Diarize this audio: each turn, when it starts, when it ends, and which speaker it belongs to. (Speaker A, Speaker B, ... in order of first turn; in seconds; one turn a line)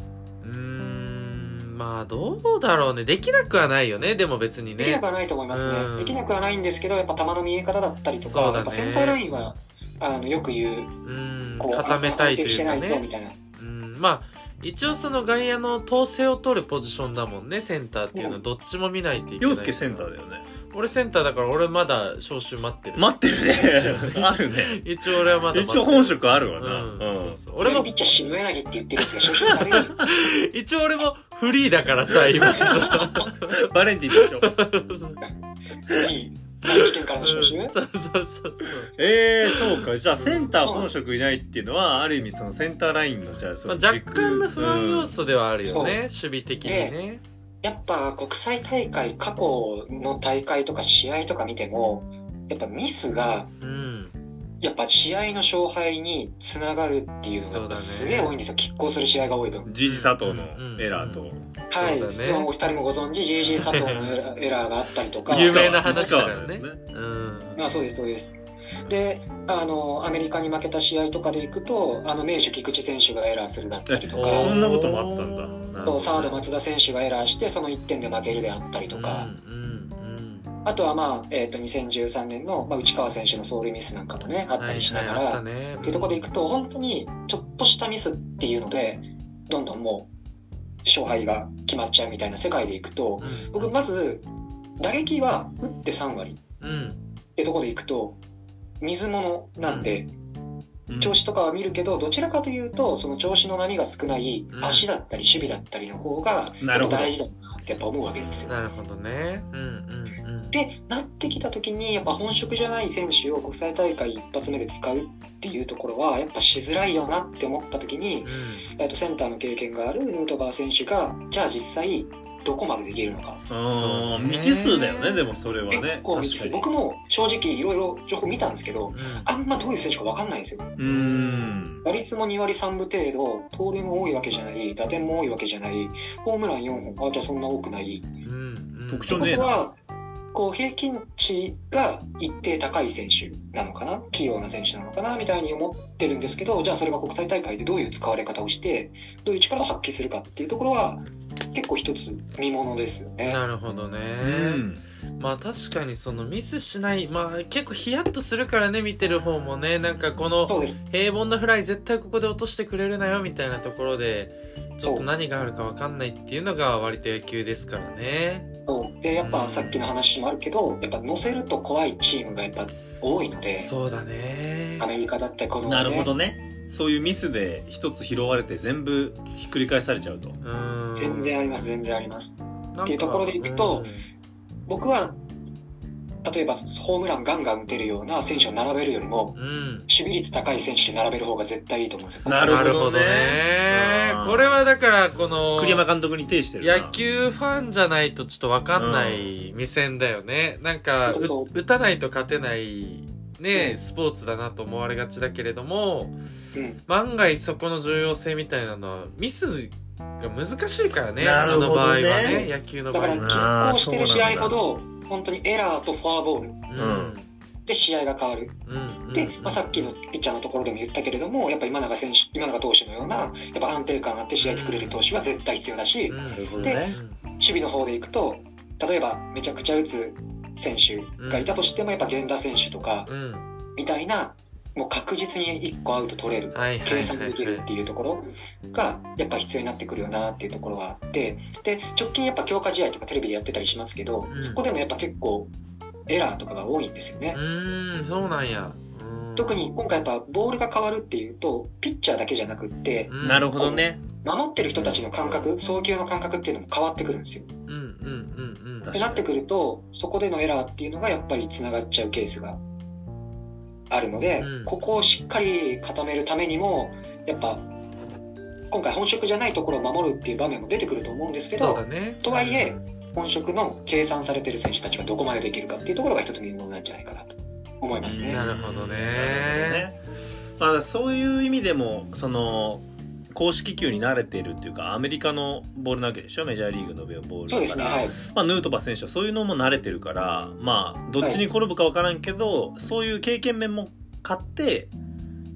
Speaker A: 0.4-6.2
Speaker B: 4.8-10.9
Speaker A: 8.2-9.2
Speaker A: 11.1-13.1
Speaker B: 11.6-13.4
Speaker A: 13.6-20.1
Speaker B: 18.1-18.4
Speaker C: 19.4-20.4
Speaker A: 20.7-28.3
Speaker C: 23.0-27.4
Speaker B: 27.6-30.0
Speaker C: 29.2-30.1
Speaker A: 29.8-35.2
Speaker C: 32.3-34.6
Speaker B: 35.9-37.8
Speaker A: 36.7-38.9
Speaker C: 39.0-45.1
Speaker A: 39.5-40.5
Speaker B: 40.6-40.9
Speaker A: 43.7-47.2
Speaker B: 45.6-46.0
Speaker B: 46.6-47.0
Speaker B: 47.6-53.5
Speaker A: 53.6-54.1
Speaker B: 54.6-59.7
Speaker A: 57.5-58.4
Speaker C: 59.7-61.5
Speaker A: 59.8-62.5
Speaker B: 61.7-66.2
Speaker A: 63.6-64.2
Speaker C: 65.3-66.8
Speaker A: 65.3-67.6
Speaker B: 67.6-74.5
Speaker C: 73.9-76.3
Speaker A: 74.2-76.4
Speaker B: 75.9-79.3
Speaker A: 78.9-80.5
Speaker B: 80.7-90.1
Speaker A: 84.6-86.3
Speaker B: 90.8-94.2
Speaker A: 93.2-93.7
Speaker B: 94.8-96.4
Speaker A: 96.6-97.0
Speaker B: 97.4-98.2
Speaker B: 98.8-100.1
Speaker A: 99.7-100.0
Speaker C: 100.9-101.2
Speaker B: 101.0-108.5
Speaker A: 104.5-104.9
Speaker C: 106.6-107.1
Speaker A: 108.5-110.6
Speaker B: 110.5-123.4
Speaker A: 118.2-118.7
Speaker C: 123.5-126.7
Speaker A: 123.6-125.2
Speaker B: 125.7-130.8
Speaker A: 128.9-129.3
Speaker C: 130.8-131.8
Speaker A: 130.8-131.6
Speaker B: 131.8-138.1
Speaker A: 138.2-139.4
Speaker C: 138.9-139.6
Speaker B: 139.1-139.8
Speaker B: 140.3-153.4
Speaker A: 153.2-154.6
Speaker C: 154.2-154.8
Speaker A: 155.2-168.5
Speaker B: 160.5-160.8
Speaker B: 164.8-165.1
Speaker B: 168.7-173.7
Speaker A: 169.2-169.8
Speaker A: 173.6-174.9
Speaker B: 174.8-176.1
Speaker C: 175.7-180.4
Speaker A: 180.4-181.4
Speaker B: 181.0-183.9
Speaker A: 182.8-184.1
Speaker B: 184.7-185.2
Speaker B: 186.2-189.4
Speaker A: 189.3-189.9
Speaker B: 189.9-192.8
Speaker C: 192.2-194.6
Speaker A: 192.4-195.9
Speaker C: 195.6-197.0
Speaker A: 196.6-206.2
Speaker C: 198.8-199.3
Speaker B: 201.1-201.5
Speaker B: 206.5-206.8
Speaker A: 206.9-213.5
Speaker C: 211.2-212.5
Speaker B: 212.1-216.7
Speaker C: 213.2-214.6
Speaker A: 216.7-217.3
Speaker C: 216.8-217.2
Speaker B: 217.7-218.6
Speaker A: 218.7-219.9
Speaker B: 219.1-226.9
Speaker A: 224.4-225.0
Speaker A: 226.1-227.2
Speaker C: 226.3-227.0
Speaker B: 227.4-233.1
Speaker A: 231.2-231.6
Speaker A: 233.1-233.5
Speaker B: 233.8-245.5
Speaker A: 236.5-237.7
Speaker A: 244.3-244.6
Speaker B: 246.1-247.4
Speaker A: 247.3-249.7
Speaker B: 249.4-257.5
Speaker A: 253.1-253.5
Speaker C: 253.2-254.0
Speaker A: 254.8-255.0
Speaker C: 255.1-255.5
Speaker A: 257.7-258.9
Speaker C: 258.8-259.3
Speaker B: 258.9-262.6
Speaker B: 263.9-267.6
Speaker A: 264.4-264.7
Speaker B: 268.7-278.4
Speaker A: 271.5-272.8
Speaker C: 278.0-280.0
Speaker A: 278.3-279.9
Speaker C: 280.6-294.9
Speaker B: 287.5-288.2